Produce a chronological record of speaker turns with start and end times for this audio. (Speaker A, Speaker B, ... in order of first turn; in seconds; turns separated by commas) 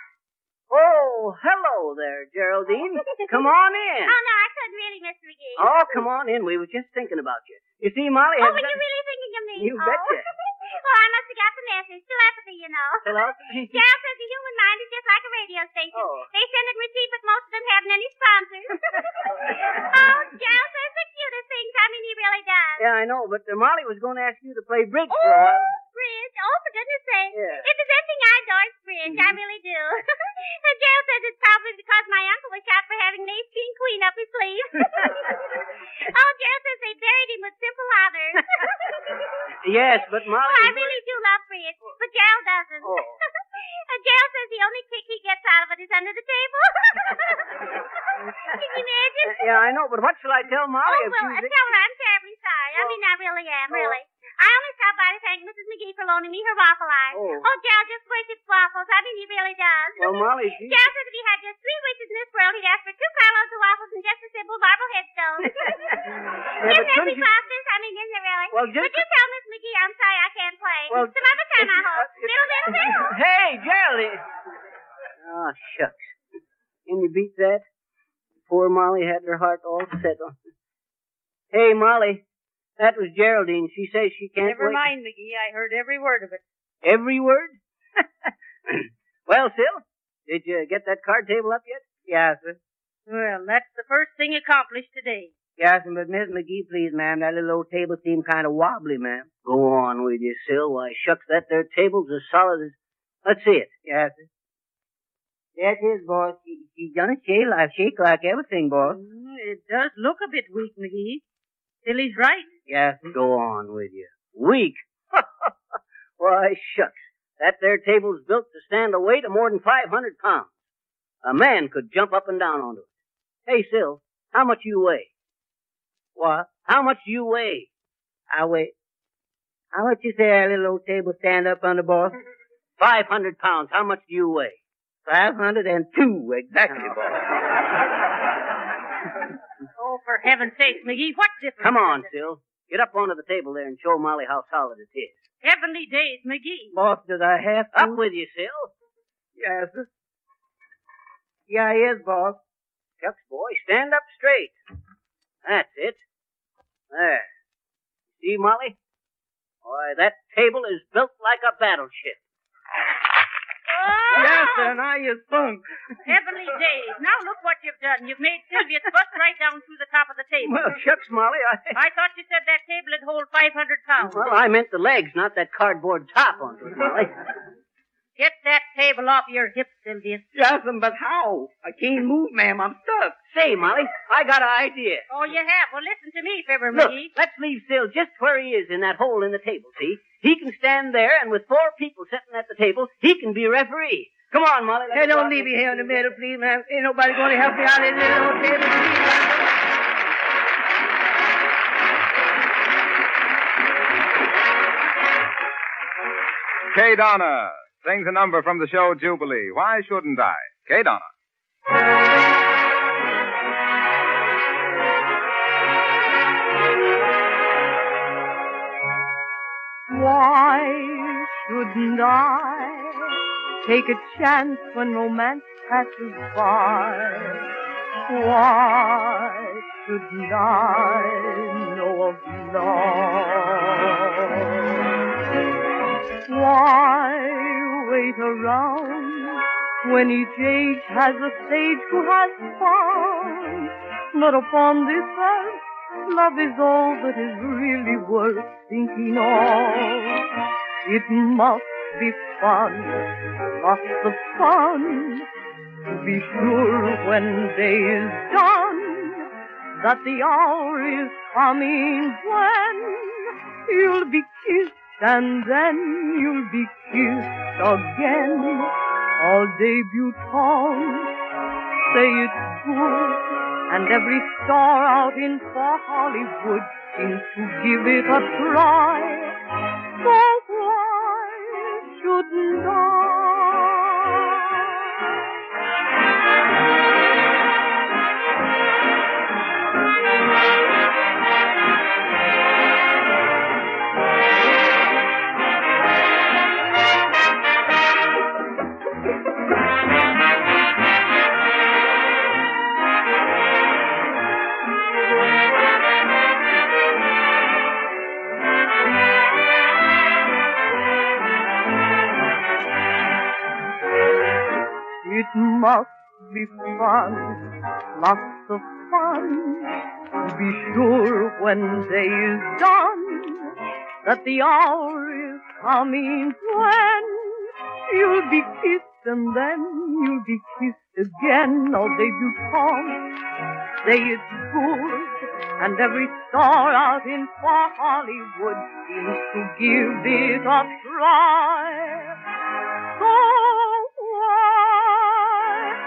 Speaker A: 0.7-4.2, Speaker B: 4.1-6.1, Speaker A: 5.6-8.8, Speaker B: 8.4-22.9, Speaker A: 9.6-10.3, Speaker A: 13.1-13.8, Speaker A: 15.9-16.3, Speaker A: 22.8-25.8, Speaker B: 25.1-35.4, Speaker A: 27.3-27.6, Speaker B: 36.0-38.7, Speaker A: 39.6-41.0, Speaker B: 40.4-47.7, Speaker A: 42.8-43.2, Speaker B: 48.5-49.5, Speaker A: 49.2-51.5, Speaker B: 50.9-66.0, Speaker A: 53.7-54.0, Speaker A: 57.1-57.5, Speaker A: 60.0-60.8, Speaker A: 65.6-67.3, Speaker B: 66.6-73.2, Speaker A: 68.5-69.0, Speaker A: 70.9-74.2, Speaker A: 75.2-76.1, Speaker A: 76.9-77.6, Speaker A: 78.5-80.3, Speaker A: 81.5-82.2, Speaker A: 82.8-84.8, Speaker C: 84.4-86.4, Speaker A: 86.8-91.8, Speaker D: 92.1-92.6, Speaker C: 93.1-95.3, Speaker D: 95.6-99.3, Speaker A: 99.4-103.7, Speaker D: 103.8-104.3, Speaker D: 105.6-109.0, Speaker C: 108.9-111.2, Speaker C: 111.8-112.5, Speaker D: 112.7-113.1, Speaker A: 113.1-120.6, Speaker A: 121.2-122.9, Speaker A: 123.5-125.1, Speaker D: 126.2-126.5, Speaker A: 126.6-127.7, Speaker D: 128.3-128.7, Speaker D: 129.7-132.1, Speaker A: 132.8-134.6, Speaker D: 135.1-137.4, Speaker C: 139.8-142.1, Speaker A: 141.6-145.2, Speaker C: 145.4-146.7, Speaker D: 146.7-148.0, Speaker A: 147.7-148.7, Speaker D: 149.4-149.9, Speaker D: 151.5-152.4, Speaker A: 153.0-154.6, Speaker A: 155.4-156.0, Speaker A: 156.9-157.3, Speaker A: 158.1-158.8, Speaker A: 159.6-162.2, Speaker C: 163.8-164.7, Speaker D: 164.1-165.6, Speaker C: 166.1-170.6, Speaker A: 170.4-171.8, Speaker C: 171.7-174.2, Speaker A: 174.0-177.1, Speaker C: 178.2-180.3, Speaker D: 180.3-183.2, Speaker A: 183.3-185.1, Speaker C: 185.1-187.1, Speaker A: 186.7-196.0, Speaker D: 194.9-199.5, Speaker E: 206.7-211.1, Speaker F: 219.9-223.1, Speaker F: 223.6-227.4, Speaker F: 228.1-234.1, Speaker F: 236.3-250.2, Speaker F: 250.8-255.3, Speaker F: 255.9-259.3, Speaker F: 259.8-271.1, Speaker F: 271.9-279.4, Speaker F: 280.0-283.8, Speaker F: 315.0-323.5, Speaker F: 324.0-333.1, Speaker F: 333.8-342.1, Speaker F: 343.0-345.5